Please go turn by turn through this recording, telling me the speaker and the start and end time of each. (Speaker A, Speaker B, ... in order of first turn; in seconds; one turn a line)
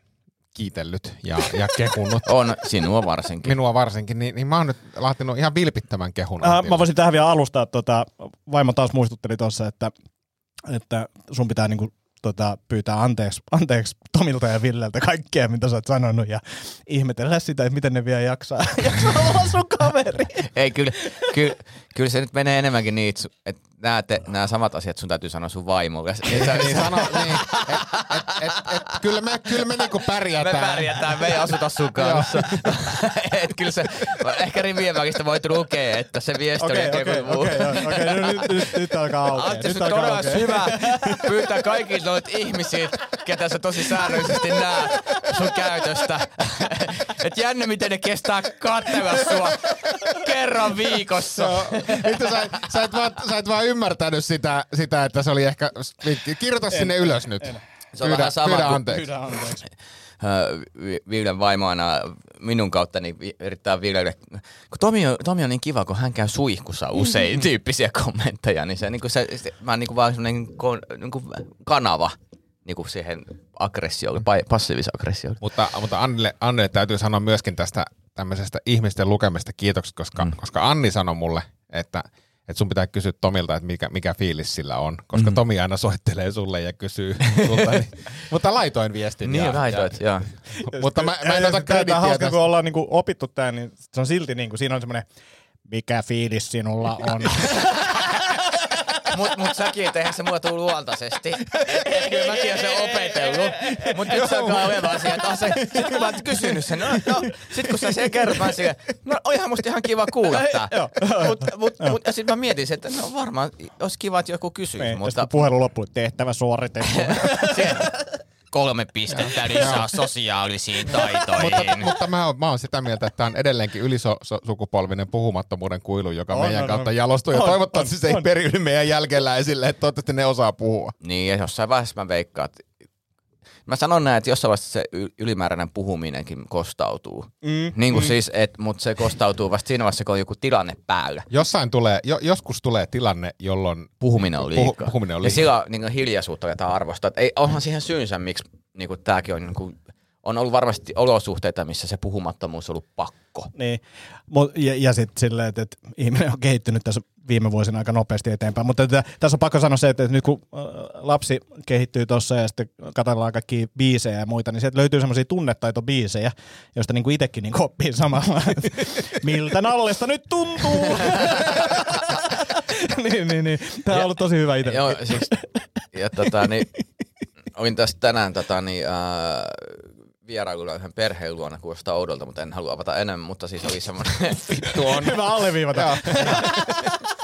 Speaker A: 0.5-2.3
Speaker B: 2.3-3.6
Speaker A: 3.4-6.9
Speaker C: 6.4-9.9
Speaker C: 10.7-20.5
Speaker B: 20.4-52.4
Speaker A: 26.3-31.4
Speaker A: 31.9-32.9
Speaker C: 36.6-41.5
Speaker C: 51.4-51.7
Speaker A: 51.5-59.1
Speaker C: 56.7-57.6
Speaker B: 57.9-59.0
Speaker C: 58.8-59.7
Speaker B: 60.2-75.4
Speaker A: 75.4-89.9
Speaker B: 87.3-87.8
Speaker B: 89.2-90.3
Speaker C: 90.5-95.1
Speaker A: 90.7-92.4
Speaker C: 95.7-98.2
Speaker B: 99.1-115.3
Speaker C: 101.5-108.5
Speaker C: 110.3-112.0
Speaker C: 114.8-117.9
Speaker B: 116.8-121.9
Speaker A: 119.1-119.9
Speaker A: 121.3-130.9
Speaker C: 126.3-128.3
Speaker B: 131.0-132.6
Speaker B: 133.7-141.3
Speaker C: 137.4-138.1
Speaker A: 141.3-145.5
Speaker B: 144.0-153.5
Speaker C: 153.6-175.7
Speaker B: 173.9-175.3
Speaker B: 175.9-176.7
Speaker B: 177.5-185.2
Speaker A: 184.7-185.2
Speaker C: 184.8-186.9
Speaker A: 185.7-186.8
Speaker B: 186.2-186.5